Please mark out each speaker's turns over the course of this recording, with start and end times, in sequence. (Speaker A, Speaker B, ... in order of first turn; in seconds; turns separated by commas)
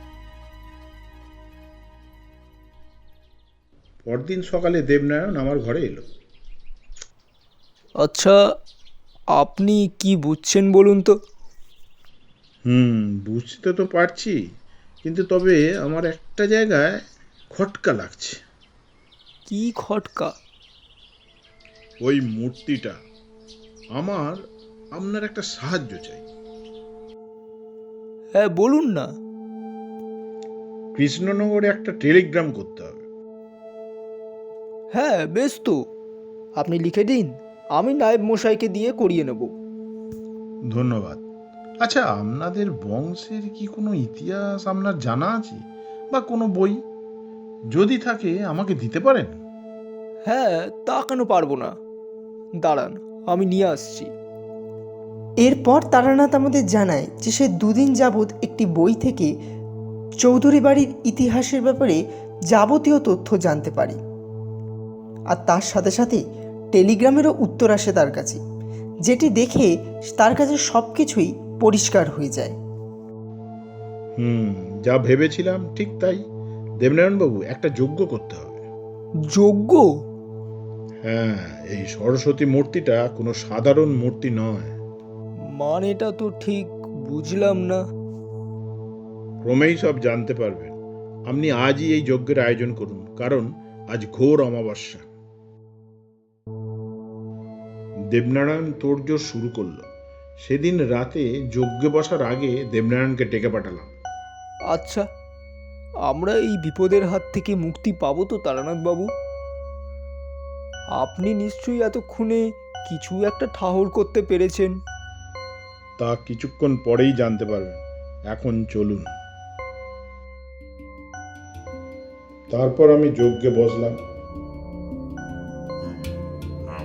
Speaker A: 4.0-6.1, Speaker B: 8.0-8.3, Speaker B: 9.4-11.1, Speaker A: 12.7-14.4, Speaker A: 15.0-17.0, Speaker A: 17.5-18.4, Speaker B: 19.5-20.3, Speaker A: 22.0-23.0, Speaker A: 23.9-24.4, Speaker A: 24.9-26.2, Speaker B: 28.4-29.0, Speaker A: 30.9-33.0, Speaker B: 35.0-35.8, Speaker B: 36.6-39.5, Speaker A: 40.7-41.2, Speaker A: 41.8-45.6, Speaker A: 46.1-46.8, Speaker A: 47.7-49.4, Speaker B: 50.3-51.7, Speaker B: 52.6-54.1, Speaker C: 55.4-59.3, Speaker C: 60.2-62.0, Speaker C: 62.5-64.0, Speaker C: 65.3-66.2, Speaker C: 66.7-68.4, Speaker C: 69.0-72.5, Speaker A: 74.2-76.2, Speaker A: 76.8-78.6, Speaker B: 79.3-79.8, Speaker A: 81.0-84.8, Speaker B: 85.6-87.8, Speaker A: 89.4-90.7, Speaker A: 91.3-95.0, Speaker A: 98.1-99.8, Speaker A: 100.4-103.9, Speaker B: 104.7-105.0, Speaker B: 106.1-109.1, Speaker B: 111.0-114.7, Speaker A: 116.0-119.1, Speaker A: 122.5-124.0